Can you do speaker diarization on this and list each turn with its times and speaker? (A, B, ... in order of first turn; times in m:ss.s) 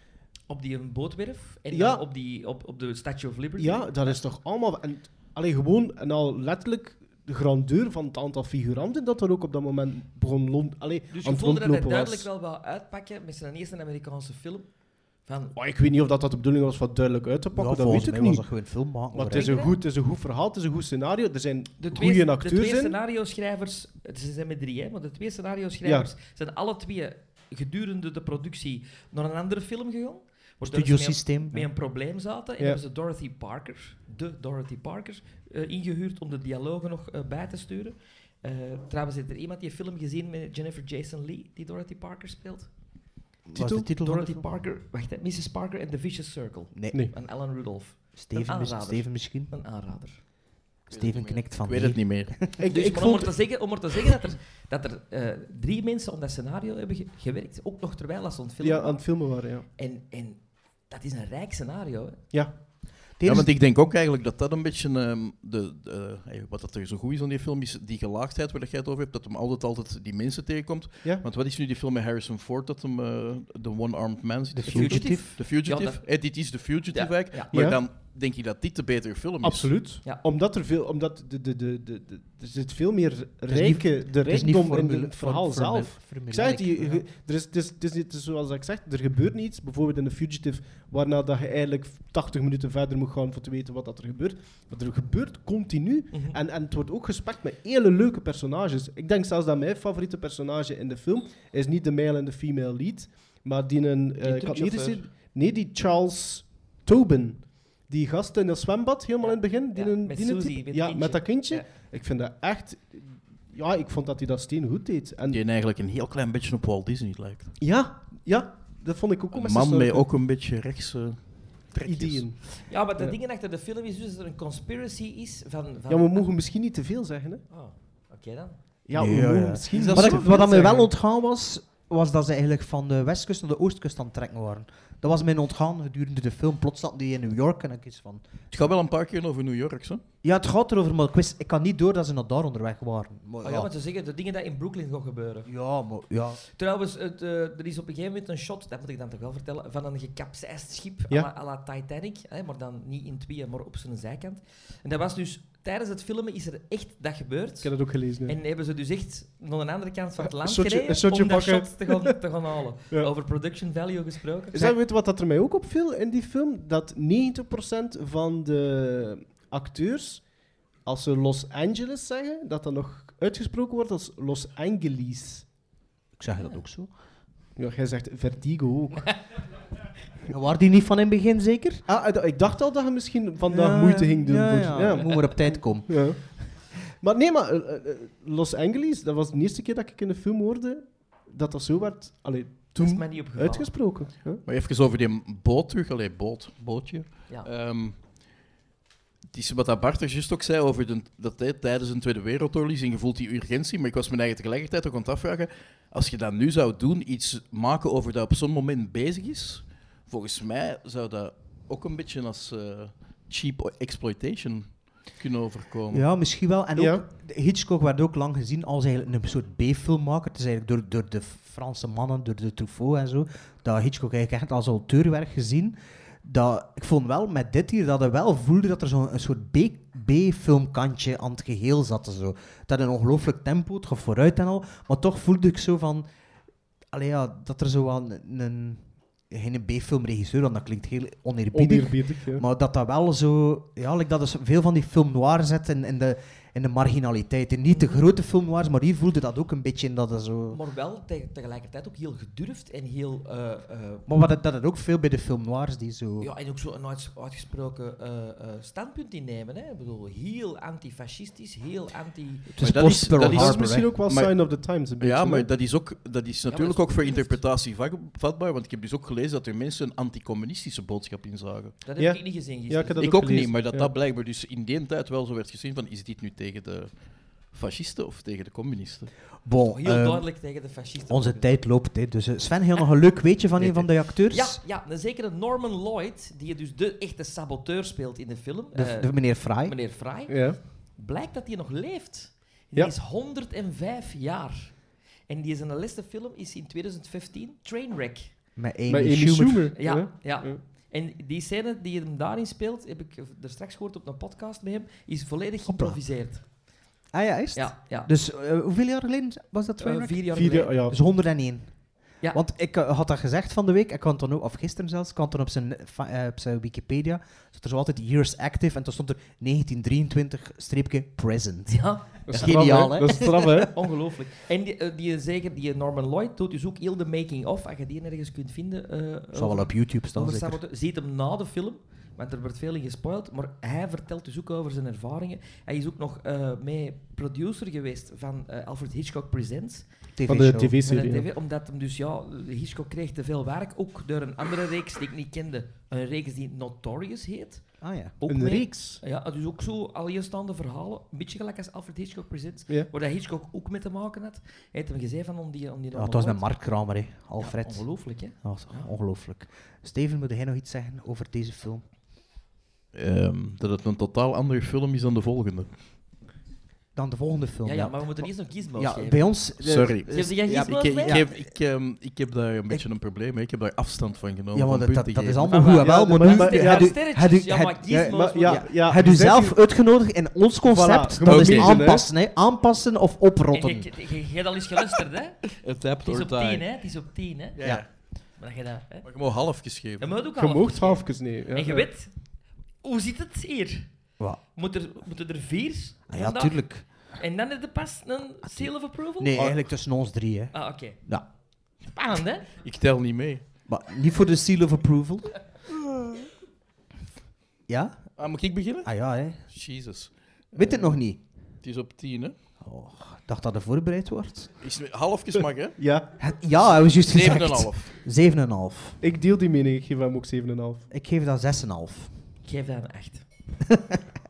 0:00.5-0:04.2 A
0:01.7-0:02.0 B
0:03.6-0:12.3 B
0:11.1-0:14.7 A
0:15.2-0:15.5 A
0:15.5-0:18.4 B
0:17.5-0:19.6 C
0:19.1-0:23.0 B
0:19.2-0:19.8 A
0:21.8-0:42.7 A
0:25.8-0:26.1 B
0:30.6-0:31.7 C
0:43.5-0:44.4 C
0:43.6-0:43.8 B
0:43.9-0:50.2 A
0:46.7-0:47.1 C
0:48.2-0:49.5 C
0:50.9-0:52.5 C
0:50.9-0:52.5 D
0:52.6-0:53.3 B
0:52.7-0:59.1 A
0:58.6-0:59.7 B
0:59.8-1:02.2 A
1:03.2-1:03.5 C
1:03.2-1:19.8 D
1:14.5-1:15.3 C
1:14.7-1:16.0 A
1:16.9-1:17.5 A
1:17.5-1:17.8 B
1:19.4-1:55.4 B
1:23.5-1:27.0 C
1:44.2-1:45.0 A
1:49.2-1:51.7 A
1:55.3-1:57.6 D
1:57.6-2:00.0 B
1:59.3-2:02.3 D
2:01.8-2:02.4 B
2:02.5-2:06.2 A
2:05.9-2:07.4 B
2:07.5-2:08.6 A
2:08.8-2:10.9 B
2:08.9-2:18.6 C
2:09.7-2:10.9 D
2:18.5-2:20.0 D
2:20.2-2:23.7 C
2:23.4-2:25.5 A
2:25.4-2:26.4 C
2:26.5-2:37.7 A
2:37.6-2:38.4 B
2:38.3-2:44.7 A
2:40.2-2:42.1 B
2:44.5-2:50.3 B
2:50.8-2:55.5 B
2:56.2-2:56.9 C
2:57.6-2:59.2 B
3:00.3-3:01.8 C
3:01.9-3:14.4 B
3:03.5-3:06.5 C
3:12.8-3:13.7 A
3:14.4-3:18.0 D
3:19.3-3:36.0 D
3:35.9-3:56.0 C
3:36.8-3:37.0 B
3:56.9-4:10.6 C
4:01.5-4:02.4 B
4:07.7-4:08.0 A
4:10.5-4:14.1 A
4:14.1-4:16.3 C
4:16.2-4:22.5 A
4:22.5-4:24.0 C
4:22.6-4:31.8 D
4:22.8-4:25.5 B
4:26.5-4:27.4 A
4:31.8-4:33.0 A
4:32.0-4:33.9 B
4:33.0-4:39.1 D
4:39.4-4:40.3 C
4:39.7-4:41.6 A
4:41.1-4:44.6 C
4:43.6-4:43.9 D
4:44.3-4:58.4 A
4:48.7-4:49.8 C
4:50.3-4:50.6 B
4:58.6-4:59.7 C
4:58.9-5:00.6 B
4:59.8-5:06.4 A
5:05.6-5:06.0 C
5:07.1-5:23.6 C
5:07.5-5:08.1 A
5:09.8-5:10.8 A
5:10.3-5:11.0 B
5:21.7-5:22.2 A
5:22.3-5:23.7 B
5:23.7-5:39.8 A
5:29.3-5:30.6 C
5:40.2-5:40.8 C
5:40.3-5:41.3 B
5:40.8-5:47.6 A
5:47.8-5:48.1 C
5:48.2-5:56.4 A
5:48.3-5:49.0 B
5:55.9-6:01.8 C
5:57.4-5:58.9 A
6:02.9-6:05.7 D
6:06.9-6:11.4 C
6:07.6-6:09.2 A
6:09.6-6:15.5 D
6:10.1-6:11.2 A
6:14.5-6:23.9 C
6:15.4-6:18.6 A
6:15.8-6:17.0 B
6:18.0-6:19.6 B
6:20.6-6:22.1 B
6:21.2-6:21.8 D
6:23.5-6:27.7 A
6:25.6-6:26.6 D
6:27.6-6:27.8 D
6:28.4-6:29.1 A
6:29.0-6:30.1 D
6:30.0-6:32.1 A
6:30.4-6:31.9 B
6:32.8-6:33.9 A
6:34.5-6:36.6 A
6:36.1-6:36.8 C
6:37.2-6:39.4 A
6:38.4-6:41.3 C
6:40.5-6:41.0 A
6:41.8-6:42.5 A
6:42.6-6:43.4 D
6:43.7-6:45.4 C
6:47.7-6:48.1 C
6:48.2-6:48.9 D
6:48.8-6:49.4 C
6:49.5-6:51.0 D
6:50.5-6:51.2 C
6:51.6-6:52.3 D
6:52.6-6:54.5 C
6:54.6-6:55.8 D
6:55.8-6:56.1 B
6:56.2-6:59.0 C
6:57.0-6:57.9 D
6:59.0-7:00.9 B
7:00.9-7:02.1 C
7:02.4-7:03.2 A
7:03.7-7:04.0 C